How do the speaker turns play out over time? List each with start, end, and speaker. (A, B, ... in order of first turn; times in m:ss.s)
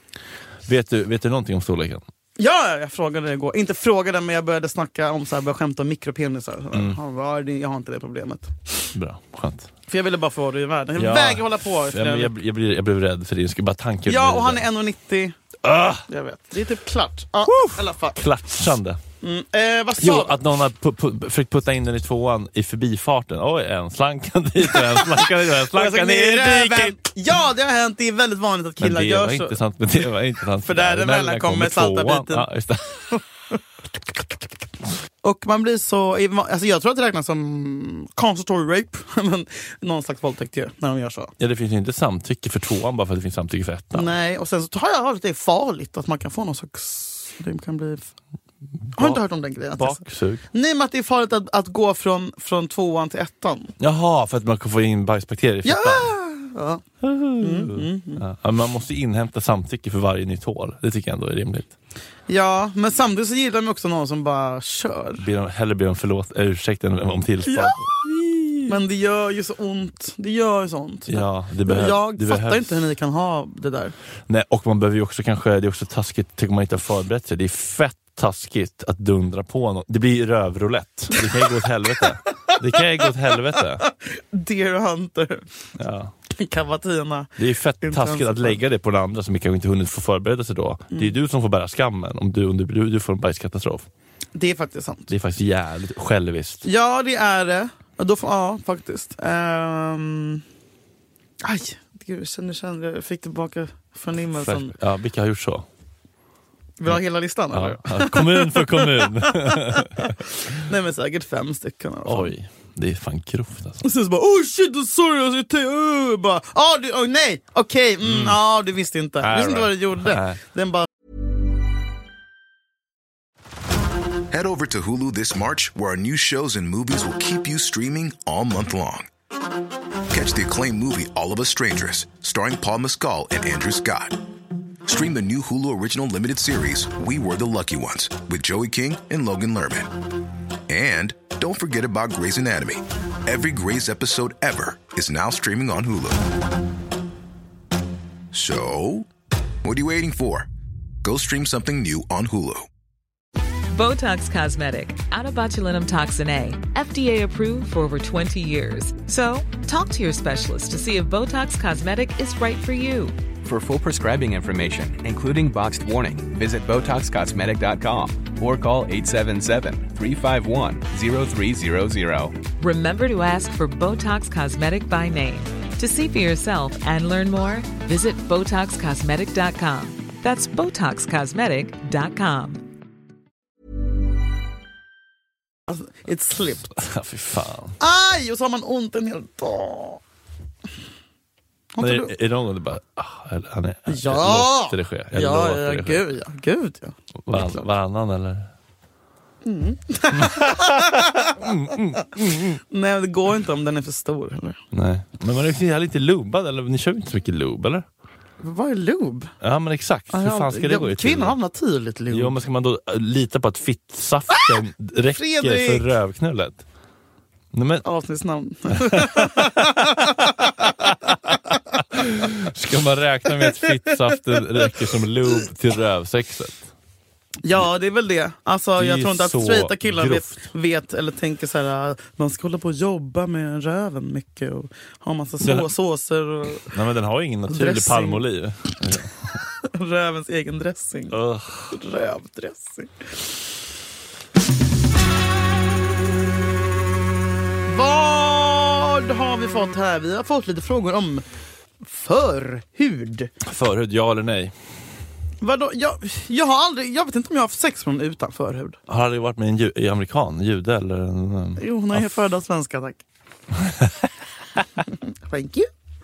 0:00.6-0:02.0 A
0:02.4-0:08.9 B
0:06.7-0:07.0 A
0:08.9-0:09.7 A
0:09.9-0:12.3 B
0:11.0-0:14.7 A
0:14.1-0:15.4 B
0:15.6-0:16.1 A
0:16.1-0:18.2 B
0:17.4-0:19.0 A
0:19.2-0:20.4 B
0:20.0-0:27.0 A
0:24.7-0:29.6 B
0:28.8-0:33.2 A
0:30.6-0:32.5 B
0:35.2-0:41.3 B
0:41.4-0:44.1 A
0:43.9-0:48.1 B
0:48.9-0:49.2 A
0:49.0-0:53.7 B
0:49.8-0:50.4 A
0:53.8-0:56.1 A
0:55.6-0:56.8 B
0:57.0-1:01.7 A
0:57.4-0:58.2 B
1:02.3-1:05.3 B
1:05.2-1:08.8 A
1:07.5-1:07.8 B
1:08.7-1:13.9 B
1:11.1-1:12.8 A
1:14.3-1:23.8 A
1:22.5-1:25.4 B
1:25.8-1:26.1 A
1:26.3-1:28.6 B
1:27.4-1:33.9 A
1:34.4-1:35.1 B
1:35.1-1:36.6 A
1:36.6-1:40.4 B
1:41.4-1:44.7 B
1:44.3-1:45.7 A
1:46.8-1:52.3 B
1:47.5-1:50.2 A
1:52.0-1:53.8 A
1:53.8-2:00.9 B
1:58.0-1:58.4 A
1:59.2-2:00.4 A
2:04.3-2:09.1 C
2:10.1-2:14.2 C
2:14.9-2:19.9 C
2:20.7-2:26.2 C
2:28.3-2:29.1 C
2:29.6-2:30.5 C
2:31.0-2:32.7 C
2:33.7-2:43.2 D
2:43.4-2:52.4 E
2:52.6-3:02.6 D
3:05.7-3:06.8 B
3:06.7-3:07.8 A
3:07.8-3:10.0 B
3:11.7-3:12.1 B
3:11.8-3:16.1 A
3:13.9-3:17.6 B
3:17.2-3:18.5 A
3:19.4-3:21.4 B
3:20.1-3:22.6 A
3:22.7-3:24.6 B
3:24.7-3:27.9 A
3:28.4-3:29.3 B
3:29.4-3:31.4 A
3:30.1-3:32.4 B
3:32.1-3:36.6 A
3:35.1-3:35.9 B
3:37.5-3:37.9 A
3:37.8-3:40.7 B
3:38.7-3:46.7 A
3:47.4-3:56.7 B
3:48.8-3:50.4 A
3:55.4-3:55.7 A
3:56.6-3:59.4 A
3:57.5-3:58.2 B
3:59.6-4:01.2 B
4:01.1-4:01.8 A
4:01.7-4:02.9 B
4:07.7-4:11.2 B
4:11.8-4:13.3 B
4:13.4-4:14.6 A
4:15.4-4:18.8 B
4:18.9-4:22.2 A
4:21.6-4:23.0 B
4:24.8-4:25.7 B